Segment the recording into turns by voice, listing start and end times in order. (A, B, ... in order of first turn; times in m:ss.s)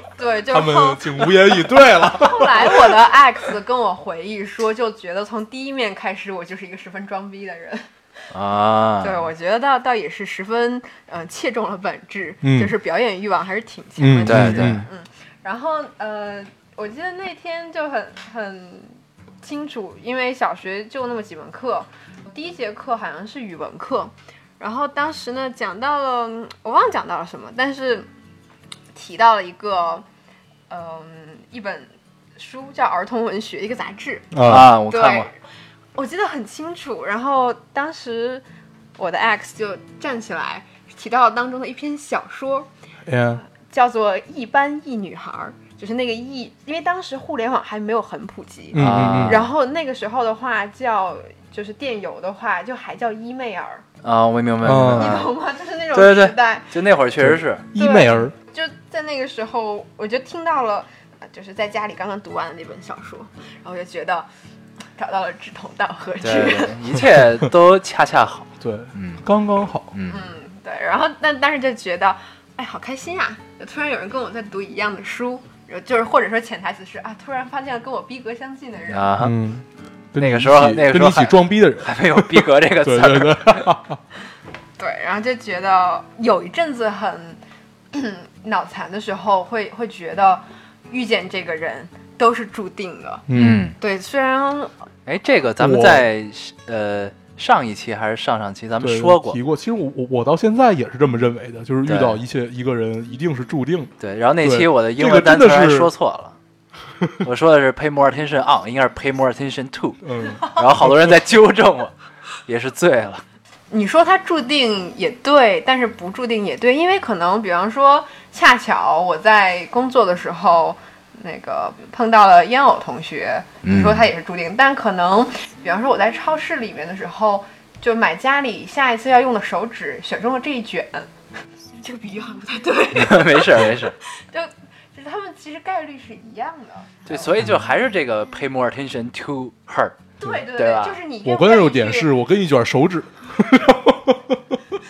0:00.2-0:07.9 A
0:00.5-0:03.1 B
0:08.3-0:09.3 C
0:09.0-0:28.1 A
0:12.4-0:12.7 B
0:14.0-0:14.9 B
0:14.2-0:14.8 C
0:28.9-0:30.0 A
0:30.7-0:35.4 A
0:34.3-0:34.7 B
0:34.4-0:35.3 C
0:36.0-0:38.4 A
0:39.0-0:42.7 A
0:43.1-0:43.4 B
0:43.4-0:53.8 A
0:48.7-0:49.4 B
0:48.7-0:49.5 C
0:54.0-0:55.3 C
0:54.6-0:55.2 B
0:54.9-0:57.0 A
0:55.9-0:57.7 C
0:57.2-0:58.3 B
0:57.8-1:04.3 A
1:05.0-1:06.8 A
1:06.2-1:09.2 C
1:08.6-1:09.9 B
1:09.9-1:10.2 C
1:10.1-1:19.1 A
1:18.9-1:19.4 C
1:19.2-1:24.0 B
1:20.2-1:23.7 C
1:24.8-1:27.4 A
1:27.9-1:33.2 A
1:33.3-1:33.7 B
1:33.3-1:33.8 C
1:33.8-1:34.8 A
1:35.1-1:39.4 C
1:35.6-1:36.1 B
1:38.8-1:45.9 B
1:41.8-1:42.2 C
1:44.0-1:46.4 C
1:47.2-1:51.9 C
1:50.0-1:51.2 B
1:52.5-1:53.2 C
1:53.7-2:11.1 A
2:03.6-2:04.1 C
2:11.8-2:17.5 A
2:12.9-2:14.0 C
2:17.1-2:21.0 C
2:20.2-2:22.1 A
2:21.2-2:24.6 B